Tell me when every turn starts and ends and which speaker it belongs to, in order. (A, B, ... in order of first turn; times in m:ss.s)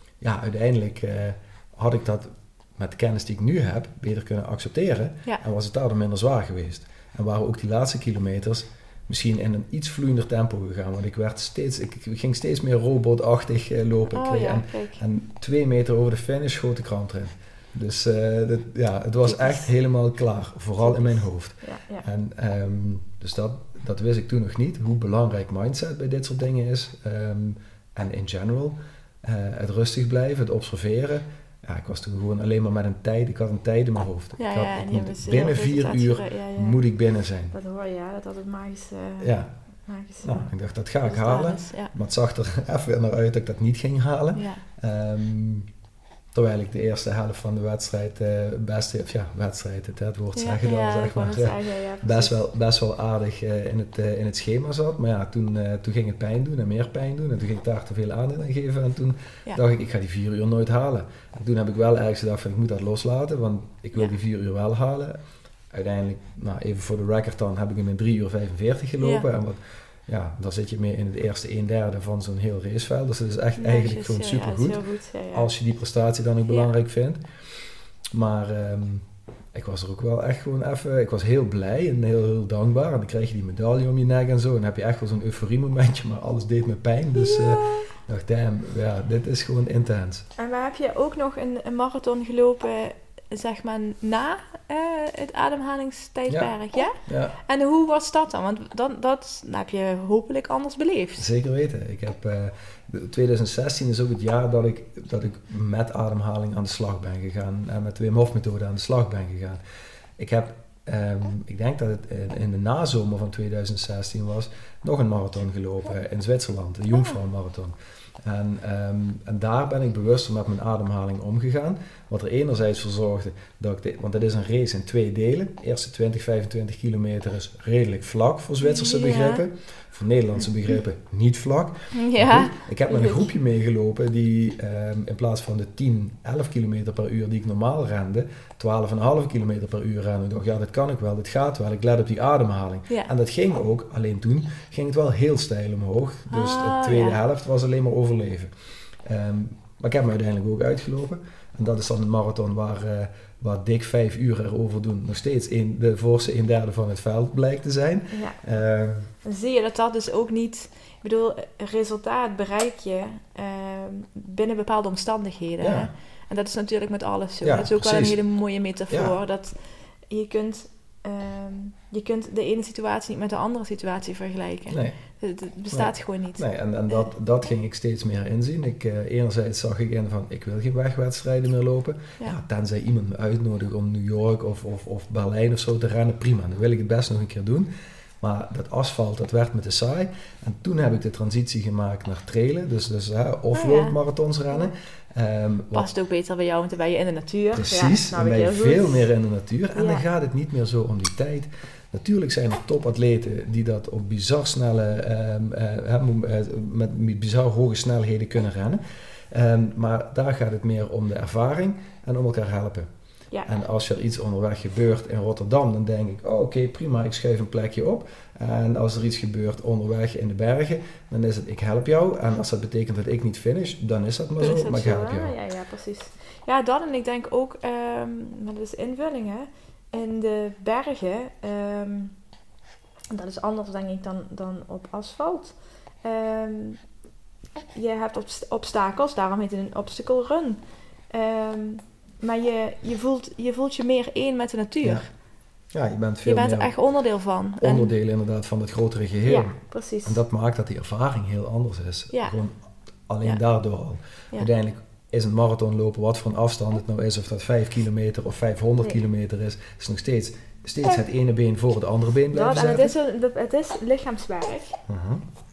0:00.2-0:37.5 A
0:14.1-0:15.0 B
0:19.2-0:19.7 B
0:20.8-0:22.0 B
0:34.4-0:36.8 B
0:37.5-0:39.3 B
0:39.2-0:39.5 A
0:39.8-0:40.4 B
0:40.2-0:45.7 A
0:41.0-0:41.9 B
0:44.3-0:44.6 B
0:46.3-1:05.2 A
0:50.3-0:52.4 B
1:05.7-1:14.8 A
1:09.0-1:09.2 B
1:13.6-1:15.5 B
1:15.3-1:17.2 A
1:16.5-1:16.7 B
1:18.1-1:30.2 A
1:27.2-1:27.9 B
1:30.4-1:41.2 B
1:36.3-1:36.5 A
1:37.0-1:37.4 A
1:41.2-1:49.6 A
1:50.2-2:28.5 A
2:08.6-2:09.4 B
2:11.9-2:13.3 B
2:26.3-2:27.2 B
2:29.0-2:39.1 A
2:38.1-2:38.4 B
2:39.2-2:57.1 B
2:45.6-2:45.9 A
2:47.4-2:48.2 A
2:48.9-2:49.2 A
2:54.7-2:55.0 A
2:55.7-3:07.7 A
3:08.2-3:15.9 A
3:13.5-3:14.0 B
3:15.7-3:19.1 B
3:17.5-3:28.8 A
3:19.7-3:20.0 B
3:29.3-3:32.9 A
3:33.4-3:45.3 A
3:44.4-3:52.1 B
3:53.1-3:56.8 B
3:57.7-4:05.1 B
4:05.7-4:06.7 A
4:06.2-4:07.9 B
4:07.6-4:12.5 A
4:09.2-4:10.2 B
4:13.1-4:22.9 A
4:22.3-4:24.8 B
4:24.9-4:25.2 A